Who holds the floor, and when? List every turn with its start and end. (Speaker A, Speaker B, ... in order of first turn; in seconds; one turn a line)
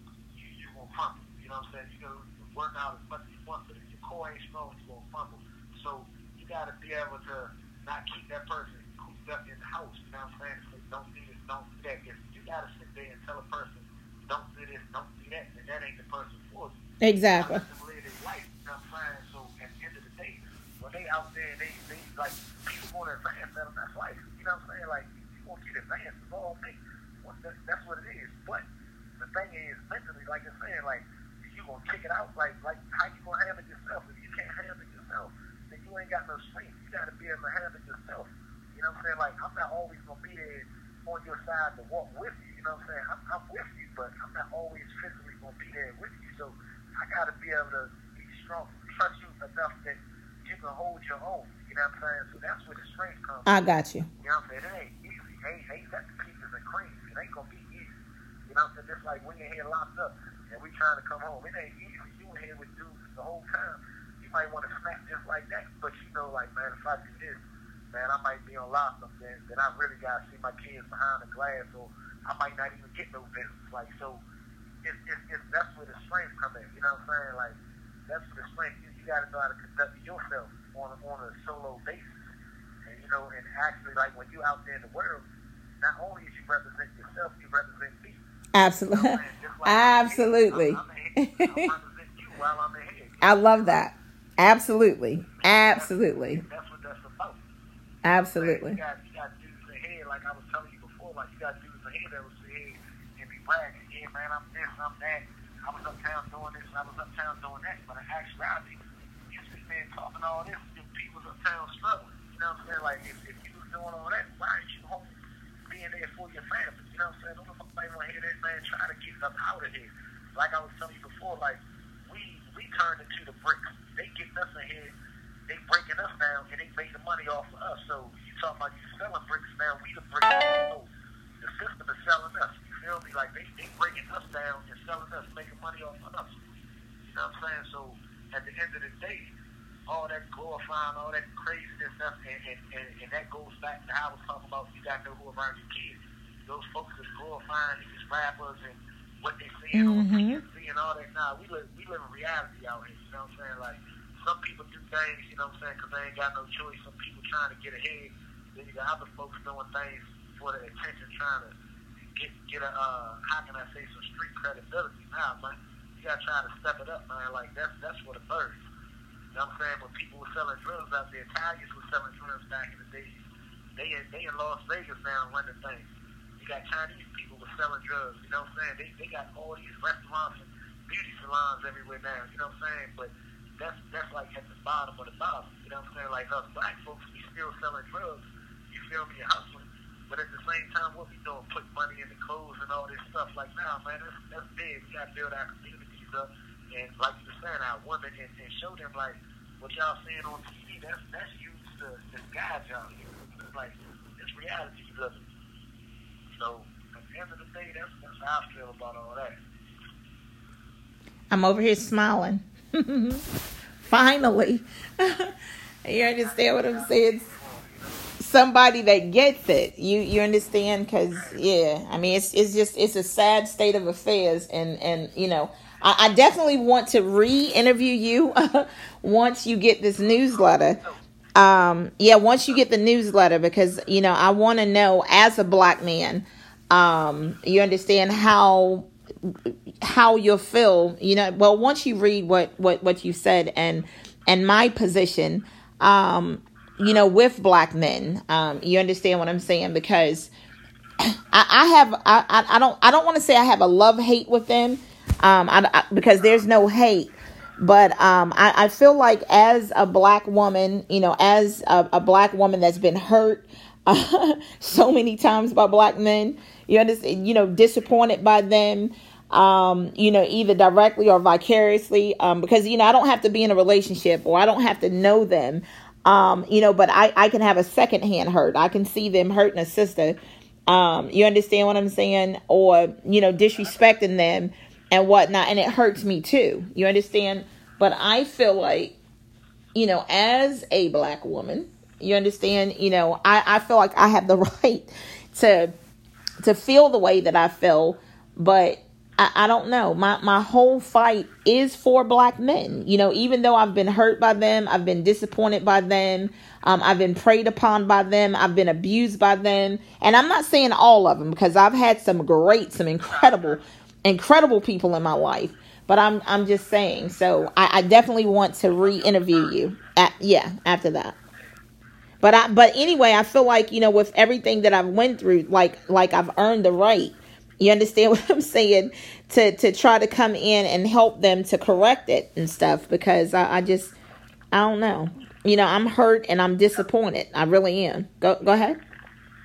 Speaker A: 0.3-16.8
Speaker B: 17.0-17.6
Speaker A: 17.4-28.6
Speaker A: 29.2-53.6
Speaker B: 53.5-54.1
Speaker A: 54.2-58.0
Speaker A: 58.5-74.2
Speaker A: 74.8-77.6
Speaker A: 78.1-82.3
Speaker A: 82.8-85.2
Speaker A: 85.8-88.2
Speaker B: 88.5-91.7
Speaker A: 88.9-93.8
Speaker B: 93.2-96.4
Speaker A: 95.4-97.4
Speaker B: 98.0-98.8
Speaker A: 98.3-108.8
Speaker A: 109.3-115.1
Speaker A: 115.7-124.9
Speaker A: 125.5-130.9
Speaker A: 131.4-136.3
Speaker A: 137.0-139.3
Speaker A: 139.9-161.5
Speaker B: 149.7-150.4
Speaker A: 162.1-168.6
Speaker A: 169.3-173.2
Speaker A: 173.8-205.2
Speaker A: 206.3-209.3
Speaker B: 211.3-213.2
Speaker B: 213.9-215.3
Speaker B: 215.8-217.2
Speaker A: 216.2-218.1
Speaker B: 218.2-230.8
Speaker A: 230.3-231.0
Speaker B: 231.3-250.3
Speaker B: 251.3-288.9
Speaker B: 289.7-295.7
Speaker B: 296.4-321.1
Speaker A: 313.0-313.6
Speaker A: 318.9-319.5
Speaker B: 322.2-333.9
Speaker B: 334.5-338.8